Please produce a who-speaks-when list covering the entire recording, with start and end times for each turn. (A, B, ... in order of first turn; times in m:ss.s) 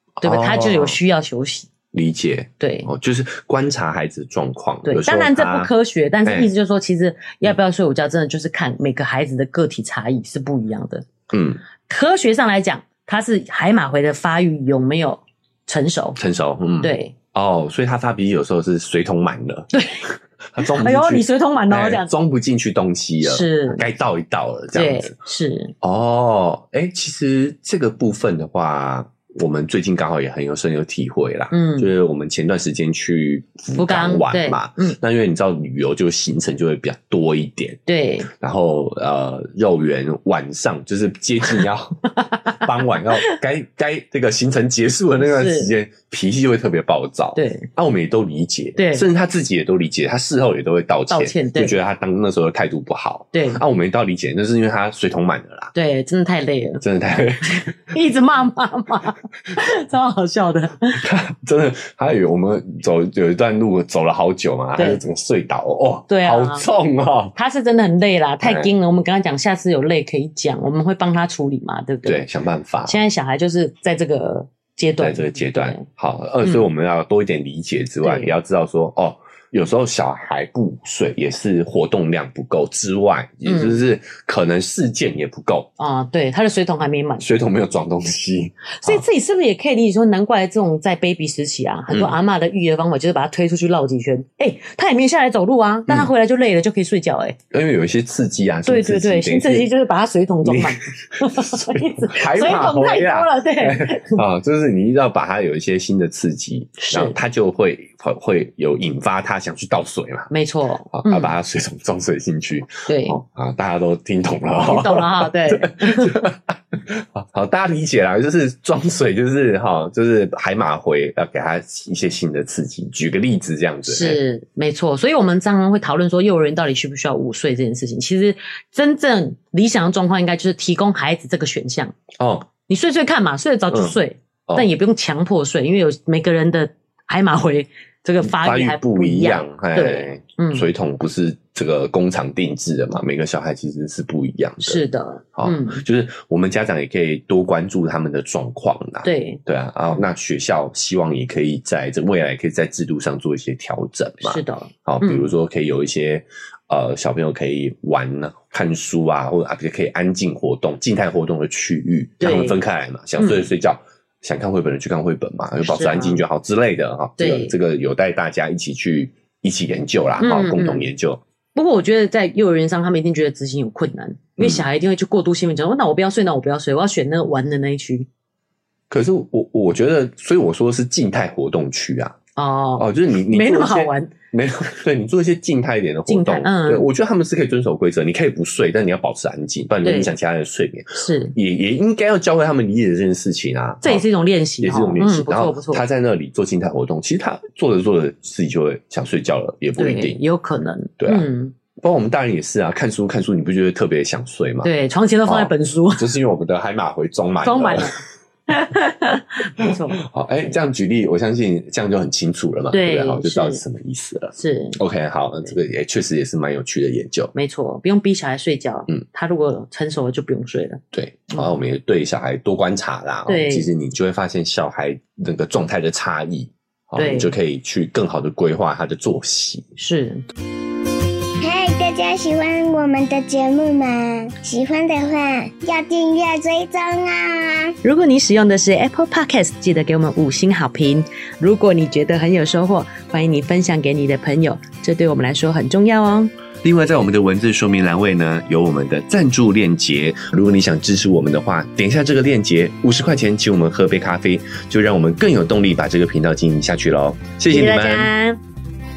0:00.2-0:01.0 A
0:00.2-0:01.7 B
0:01.9-0:05.7 A
0:02.6-0:02.9 B
0:04.8-0:11.1 B
0:06.2-0:06.5 A
0:11.3-0:11.6 A
0:11.8-0:16.2 B
0:16.2-0:25.1 A
0:16.8-0:17.1 B
0:19.7-0:22.1 B
0:23.2-0:23.8 B
0:24.7-0:25.7 B
0:25.8-0:55.7 A
0:31.5-0:31.9 B
0:33.7-0:35.0 B
0:37.9-0:38.3 B
0:42.2-0:42.6 B
0:45.2-0:45.7 B
0:47.4-0:47.7 B
0:48.8-0:49.0 B
0:51.1-0:51.8 B
0:53.3-0:53.6 B
0:55.8-0:56.8 B
0:56.8-0:57.6 A
0:57.5-1:01.0 B
1:01.0-1:07.4 A
1:06.1-1:06.7 B
1:07.4-1:12.2 B
1:08.4-1:08.7 A
1:12.0-1:13.0 A
1:12.9-1:15.9 B
1:15.0-1:25.7 A
1:18.0-1:18.3 B
1:23.5-1:23.8 B
1:25.8-1:27.2 B
1:27.2-1:29.0 A
1:28.8-1:37.4 B
1:31.9-1:32.2 A
1:37.5-1:39.7 A
1:38.7-1:44.2 B
1:40.4-1:50.3 A
1:46.8-1:47.2 B
1:50.3-1:51.3 B
1:50.9-2:04.2 A
1:52.9-1:53.2 B
1:54.6-1:56.2 B
2:03.8-2:12.0 B
2:12.2-2:12.5 A
2:12.7-2:20.7 B
2:13.7-2:14.7 A
2:18.2-2:24.8 A
2:24.6-2:25.8 B
2:25.4-2:51.2 A
2:29.0-2:29.4 B
2:34.2-2:35.3 B
2:42.2-2:42.6 B
2:43.2-2:43.4 B
2:45.6-2:46.2 B
2:47.2-2:47.5 B
2:50.2-2:50.9 B
2:51.6-2:58.1 B
2:54.4-2:54.7 A
2:58.9-3:02.2 A
3:02.4-3:04.1 B
3:02.8-3:14.1 A
3:06.1-3:06.9 B
3:09.8-3:10.1 B
3:11.0-3:11.4 B
3:13.8-3:15.8 B
3:14.6-3:20.2 A
3:19.8-3:21.5 B
3:21.0-3:24.7 A
3:24.6-3:26.1 B
3:25.3-3:27.9 A
3:27.4-3:30.0 B
3:29.6-3:37.3 A
3:32.7-3:33.6 B
3:34.4-3:34.8 B
3:37.4-3:40.8 B
3:40.9-3:49.7 A
3:43.3-3:43.7 B
3:47.0-3:47.3 B
3:49.8-3:50.2 B
3:51.4-3:57.8 C
3:57.8-4:06.3 B
4:06.6-4:18.1 A
4:17.5-4:18.4 B